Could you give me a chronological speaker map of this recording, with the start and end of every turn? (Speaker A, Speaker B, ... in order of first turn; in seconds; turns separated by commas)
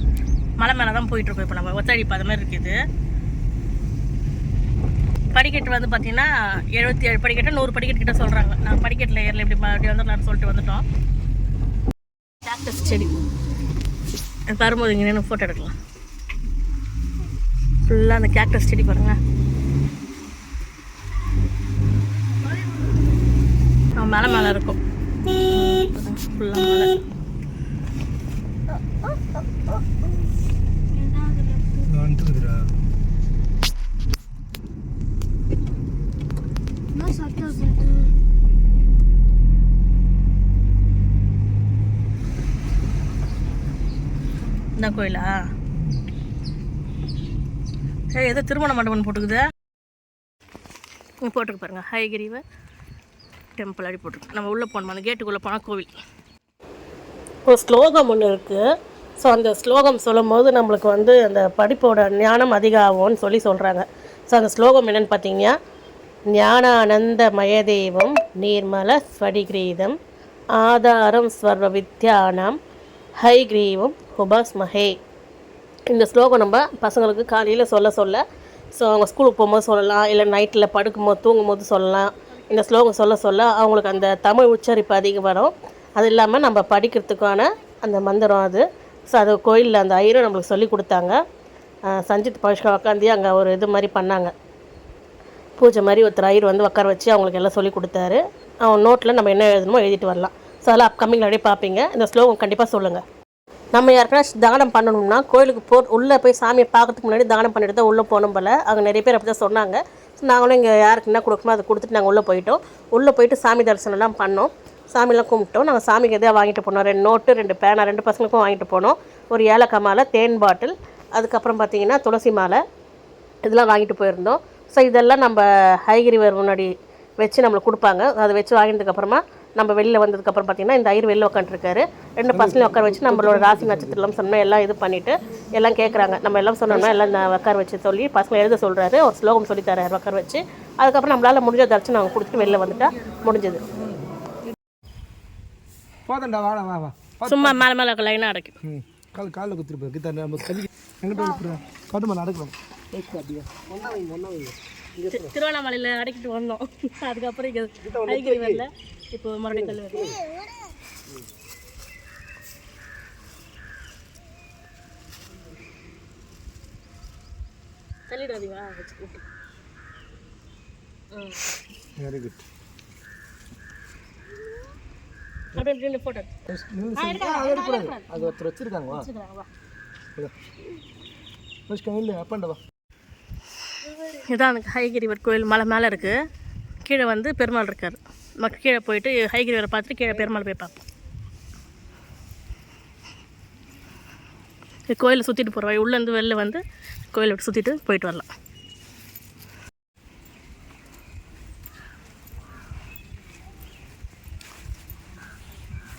Speaker A: 0.6-2.8, Speaker A: 5.3-10.8, Speaker A: 12.5-13.1, Speaker A: 14.5-15.7, Speaker A: 17.9-19.2, Speaker A: 24.0-24.8, Speaker A: 25.4-26.9, Speaker B: 28.9-29.4, Speaker C: 31.9-32.7, Speaker B: 37.0-38.1, Speaker A: 44.8-45.4, Speaker A: 48.1-49.5, Speaker A: 51.2-52.4, Speaker A: 53.6-55.9, Speaker A: 57.5-58.6, Speaker A: 59.2-65.5, Speaker A: 66.3-70.0, Speaker A: 70.5-72.6, Speaker A: 73.2-75.0, Speaker A: 75.9-78.2, Speaker A: 78.7-91.2, Speaker A: 91.9-94.3, Speaker A: 95.6-103.0, Speaker A: 103.8-122.6, Speaker A: 123.4-143.6, Speaker C: 132.3-134.1, Speaker C: 146.1-147.6, Speaker A: 147.3-148.5, Speaker C: 148.6-155.3, Speaker A: 155.1-160.1, Speaker C: 157.8-158.6, Speaker C: 159.5-160.2, Speaker B: 159.9-160.8, Speaker A: 168.1-169.2, Speaker A: 171.1-171.4, Speaker C: 172.0-172.4, Speaker A: 175.5-176.3, Speaker C: 176.5-179.1, Speaker A: 177.0-178.4, Speaker A: 178.9-179.5, Speaker C: 181.7-182.6, Speaker A: 184.1-186.2, Speaker A: 186.8-190.8, Speaker A: 194.9-198.3